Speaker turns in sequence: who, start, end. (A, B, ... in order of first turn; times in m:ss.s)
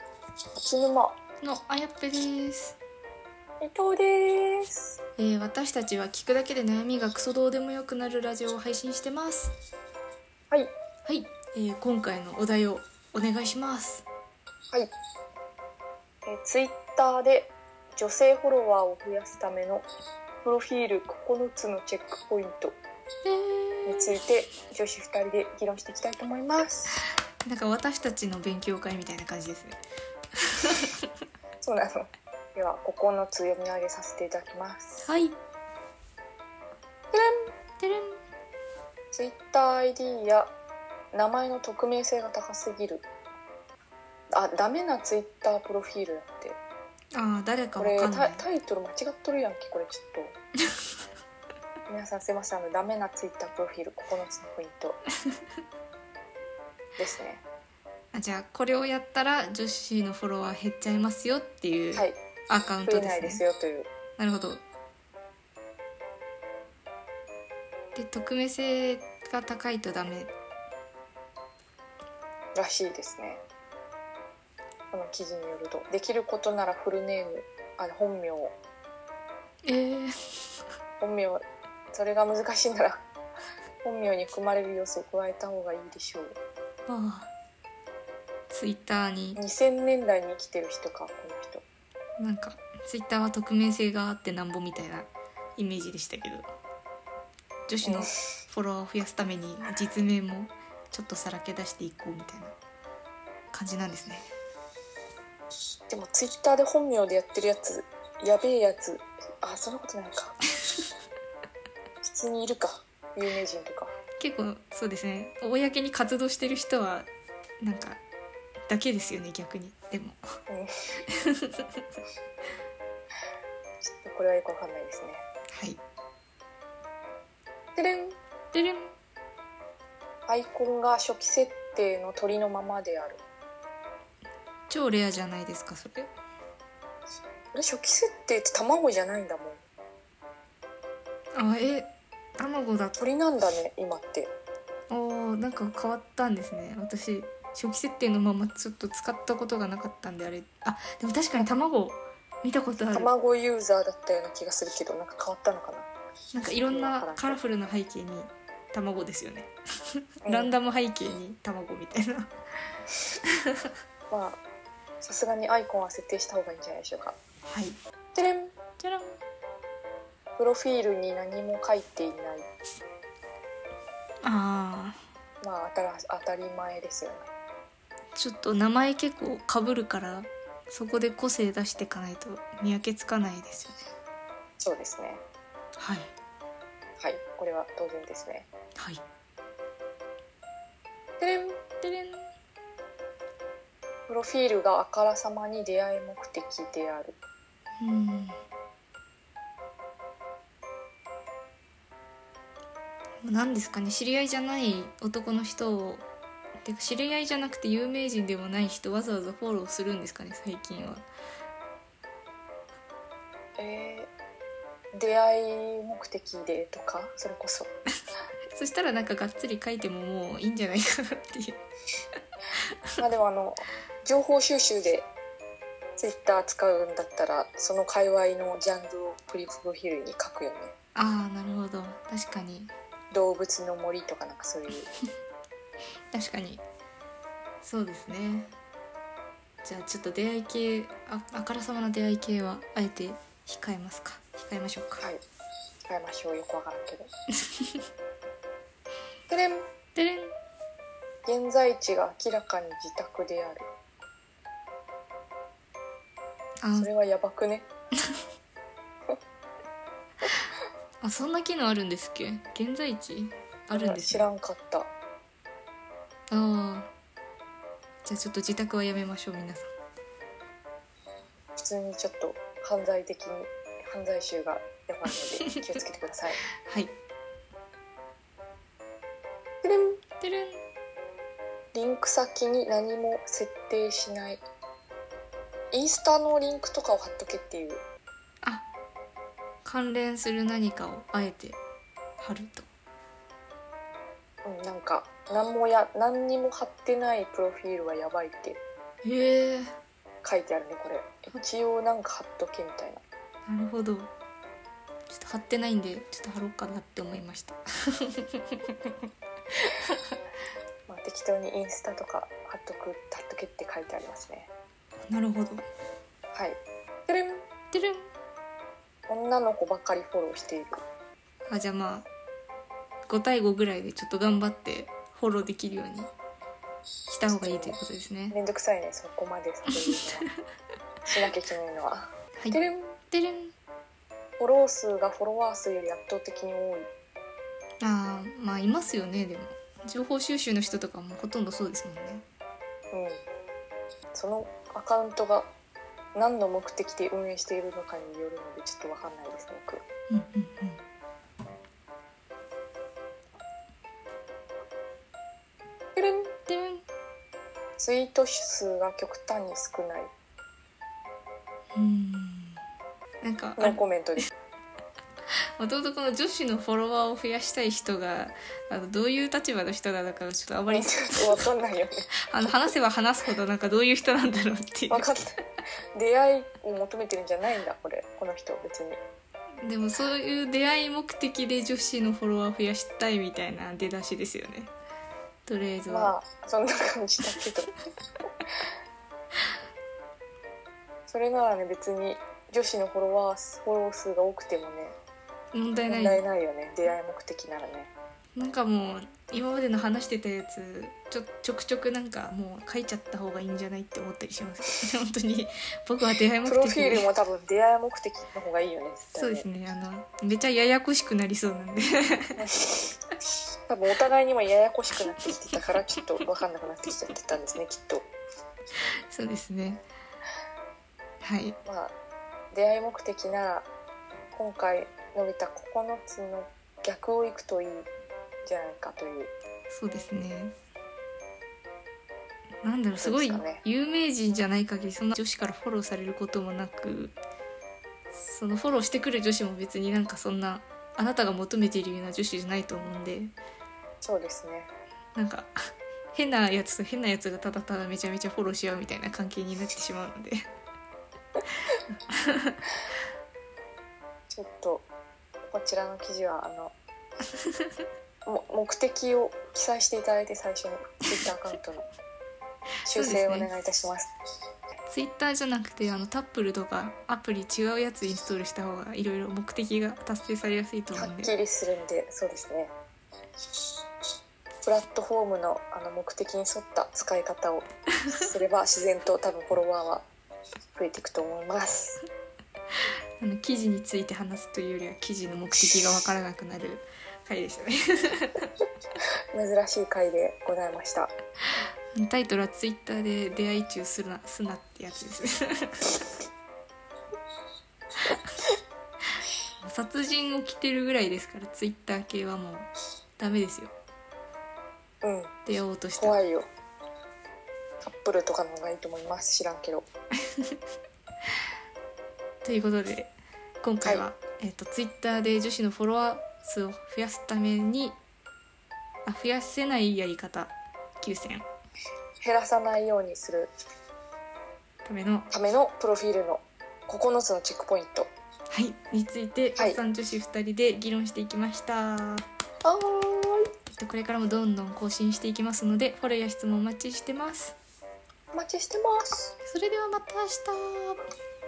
0:00.6-0:01.2 A
0:01.4-0:02.8 B
0:03.6-0:05.0 A
0:05.2-0:09.5 B
0:11.0-0:14.0 B
0:16.2-0:19.9 A
0:20.4-0:22.8 A
0:23.2-0:24.2 B
0:23.8-0:27.0 A
0:27.4-0:29.8 B
0:30.4-0:31.0 B
0:31.6-0:35.1 A
0:35.0-0:35.4 B
0:37.1-0:37.5 A
0:37.8-0:38.2 B
0:39.1-0:40.5 A
0:41.1-0:43.0 A
0:44.3-0:46.6 A
0:47.1-0:48.4 B
0:47.8-0:50.4 A
0:51.9-0:55.0 A
0:57.0-0:57.4 A
0:58.1-1:03.4 B
1:02.7-1:03.9 A
1:04.2-1:04.6 B
1:07.9-1:10.3 B
1:12.5-1:13.4 A
1:14.9-1:18.5 A
1:19.6-1:20.6 B
1:21.0-1:23.0 A
1:23.8-1:26.4 A
1:26.9-1:27.3 B
1:28.5-1:29.4 B
1:29.4-1:31.6 A
1:32.2-1:36.5 B
1:37.7-1:42.6 B
1:37.8-1:38.1 A
1:43.5-1:44.3 B
1:45.9-1:50.4 A
1:52.0-1:53.9 A
1:54.2-1:57.1 B
1:57.6-1:58.0 B
1:58.7-2:00.2 B
2:01.1-2:01.8 B
2:03.8-2:05.3 A
2:05.5-2:05.8 B
2:07.8-2:08.2 A
2:08.5-2:08.9 B
2:10.3-2:13.2 A
2:14.7-2:16.1 B
2:17.5-2:19.6 A
2:21.3-2:23.0 B
2:23.0-2:24.3 A
2:24.9-2:33.1 B
2:32.9-2:35.9 A
2:36.3-2:42.3 B
2:36.6-2:37.4 A
2:40.2-2:40.5 A
2:44.1-2:44.4 A
2:45.0-2:47.2 A
2:47.5-2:47.8 B
2:48.1-2:48.5 A
2:48.8-2:49.2 B
2:50.4-2:52.5 A
2:54.2-2:55.0 B
2:55.4-2:57.3 A
2:58.1-3:03.8 B
3:04.6-3:05.2 A
3:05.8-3:06.1 B
3:07.0-3:08.5 A
3:08.8-3:09.0 B
3:11.2-3:11.6 A
3:11.8-3:12.3 B
3:14.1-3:17.2 A
3:17.8-3:18.4 B
3:23.2-3:26.0 B
3:26.6-3:31.0 B
3:33.6-3:34.1 A
3:34.9-3:37.7 A
3:38.5-3:41.6 B
3:43.0-3:45.1 A
3:46.0-3:50.7 A
3:50.9-3:52.7 B
3:53.1-3:54.9 A
3:56.1-3:56.6 B
3:57.6-3:58.5 B
3:59.6-4:05.0 B
4:05.9-4:07.1 A
4:09.3-4:09.7 A
4:09.9-4:10.3 B
4:11.2-4:13.7 A
4:16.6-4:16.9 B
4:16.8-4:17.7 A
4:21.0-4:24.2 B
4:23.7-4:24.9 A
4:26.3-4:26.9 B
4:28.0-4:29.7 B
4:31.6-4:36.4 A
4:36.6-4:36.9 B
4:39.6-4:40.0 A
4:40.2-4:40.6 B
4:41.7-4:44.4 A
4:45.7-4:47.8 A
4:49.6-4:51.6 B
4:52.2-4:52.7 B
4:54.4-4:58.6 A
4:59.0-4:59.7 B
5:00.2-5:03.0 A
5:03.5-5:04.1 B
5:05.1-5:08.9 B
5:09.6-5:10.1 B
5:10.9-5:14.5 A
5:15.1-5:15.6 B
5:16.3-5:17.5 A
5:17.7-5:18.1 B
5:19.1-5:20.8 A
5:21.5-5:22.1 B
5:23.1-5:26.1 B
5:27.1-5:28.4 B
5:27.3-5:27.8 A
5:28.3-5:30.2 A
5:31.0-5:33.0 A
5:32.4-5:33.5 B
5:34.4-5:36.9 A
5:37.8-5:42.2 B
5:42.9-5:43.2 A
5:44.1-5:45.5 A
5:46.1-5:49.8 A
5:50.1-5:50.8 B
5:56.0-5:56.3 A
5:56.5-5:56.8 B
5:57.8-6:00.1 A
6:01.8-6:02.6 B
6:03.2-6:03.8 B
6:03.6-6:04.3 A
6:05.6-6:11.3 B
6:10.7-6:12.1 A
6:12.3-6:15.1 B
6:14.9-6:15.4 A
6:15.9-6:19.0 A
6:19.6-6:24.7 B
6:25.4-6:26.1 B
6:25.9-6:27.7 A
6:31.1-6:35.0 A
6:35.5-6:36.2 B
6:35.9-6:37.9 A
6:38.4-6:47.0 B
6:46.4-6:49.4 A
6:49.1-6:52.4 B
6:52.4-6:53.0 A
6:53.7-6:58.1 A
6:59.1-6:59.8 B
7:01.2-7:01.6 B
7:01.6-7:01.9 A
7:02.5-7:03.7 A
7:04.3-7:07.9 A
7:08.4-7:09.3 A
7:09.7-7:10.5 B
7:12.6-7:17.1 B
7:13.0-7:13.6 A
7:18.1-7:23.3 B
7:24.0-7:24.7 A
7:25.1-7:30.4 B
7:32.1-7:32.6 B
7:34.3-7:34.9 A
7:35.5-7:36.7 A
7:38.2-7:41.9 A
7:42.8-7:44.1 A
7:42.9-7:43.5 B
7:44.9-7:51.3 B
7:50.9-7:52.7 A
7:54.6-8:00.1 A
8:00.8-8:02.0 A
8:03.2-8:08.5 B
8:09.3-8:11.1 A
8:11.9-8:16.0 B
8:19.6-8:23.7 B
8:25.0-8:25.3 A
8:25.4-8:26.2 B
8:26.0-8:26.5 A
8:27.8-8:29.8 A
8:32.4-8:38.0 B
8:39.0-8:41.4 B
8:42.2-8:43.5 A
8:44.8-8:45.3 B
8:45.3-8:48.1 A
8:48.5-8:52.2 B
8:52.6-8:53.5 A
8:53.7-8:57.6 B
8:58.3-8:59.3 A
8:59.4-9:01.0 B